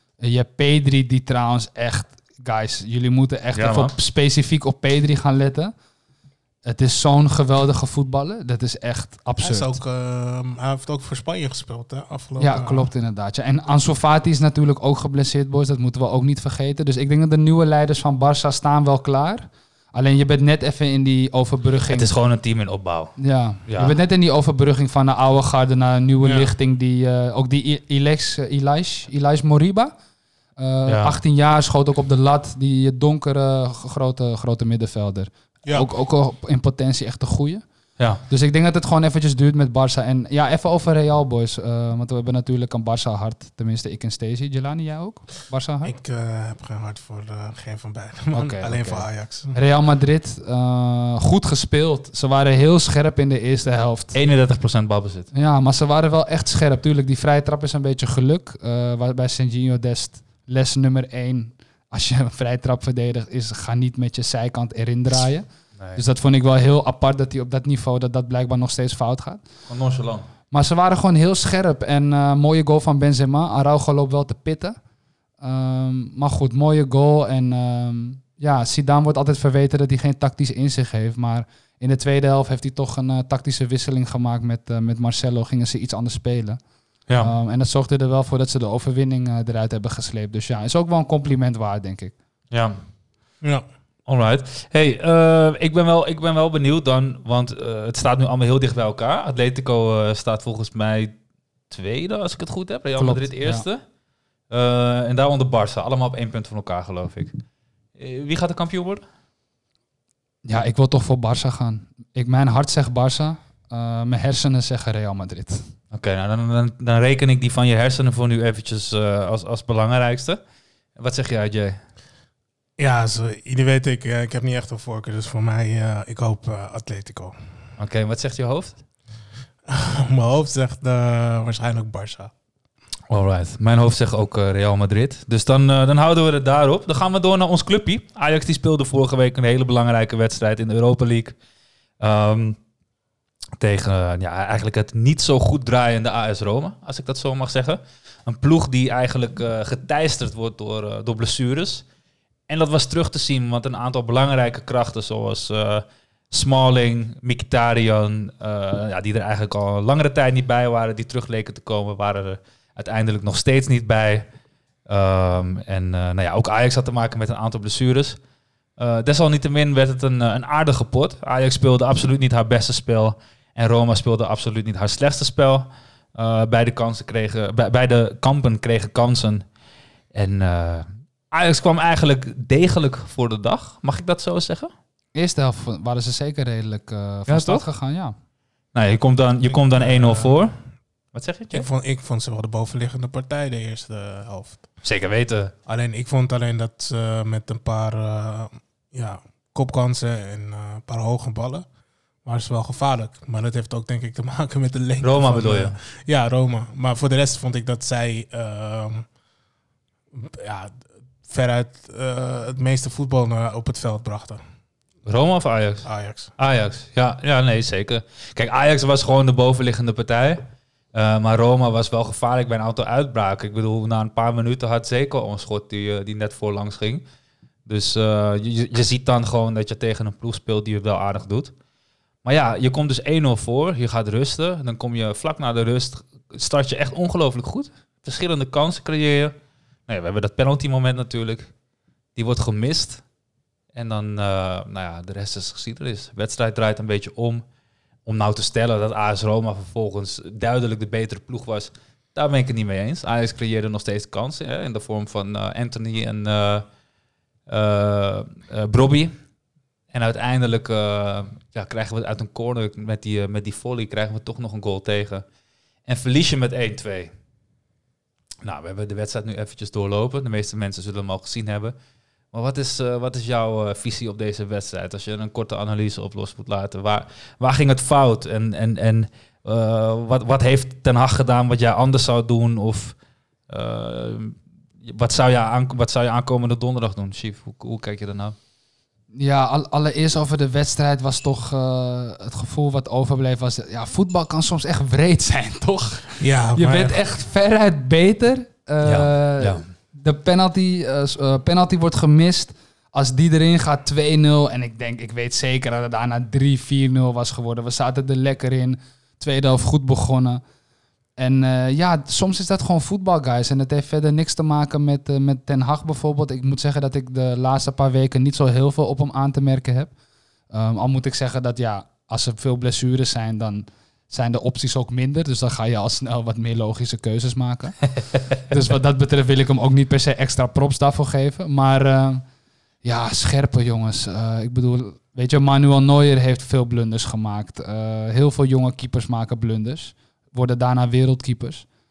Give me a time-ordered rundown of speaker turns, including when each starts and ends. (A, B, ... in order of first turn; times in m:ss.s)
0:00.2-0:05.7 A
0:03.5-0:03.9 B
0:06.6-0:09.8 A
0:09.4-0:12.9 C
0:12.4-0:22.1 A
0:21.9-0:23.1 B
0:23.2-0:29.9 A
0:23.7-0:24.0 B
0:26.2-0:26.5 C
0:30.6-0:37.6 A
0:30.9-0:31.2 B
0:35.6-0:35.9 C
0:38.3-0:46.0 A
0:45.8-0:49.6 C
0:48.3-0:54.2 A
0:54.1-0:55.3 B
0:55.3-1:09.5 A
1:09.7-1:10.3 B
1:10.5-1:14.8 A
1:15.4-1:26.6 A
1:27.2-1:32.1 A
1:32.5-1:32.8 B
1:34.1-1:41.2 B
1:41.7-1:43.8 B
1:43.0-1:43.6 A
1:44.5-1:47.4 B
1:48.0-1:49.0 B
1:50.4-1:55.7 A
1:55.9-2:00.4 B
2:01.0-2:01.8 B
2:02.8-2:07.4 C
2:07.8-2:08.8 B
2:09.7-2:12.3 C
2:13.1-2:21.4 B
2:22.0-2:22.6 B
2:23.6-2:31.8 B
2:32.5-2:44.3 B
2:44.9-2:48.2 B
2:48.8-2:59.5 B
3:00.1-3:04.7 B
3:05.1-3:08.2 A
3:07.3-3:07.6 B
3:08.7-3:10.6 B
3:09.5-3:10.4 C
3:11.1-3:11.7 B
3:11.5-3:14.6 C
3:14.8-3:15.5 B
3:15.7-3:21.7 C
3:22.2-3:29.1 C
3:25.0-3:25.8 B
3:30.1-3:34.4 C
3:35.0-3:47.0 B
3:35.8-3:36.3 C
3:47.7-3:51.5 B
3:52.2-3:59.4 B
3:59.9-4:01.5 B
4:02.2-4:03.0 B
4:03.7-4:07.4 B
4:08.1-4:16.7 B
4:17.5-4:19.2 B
4:19.9-4:25.2 B
4:25.9-4:27.1 B
4:28.4-4:31.8 B
4:32.3-4:43.0 B
4:43.5-4:48.4 B
4:49.1-5:10.4 A
4:56.2-4:57.0 C
4:58.8-4:59.7 B
5:11.2-5:19.9 A
5:20.5-5:32.2 A
5:32.8-5:41.7 A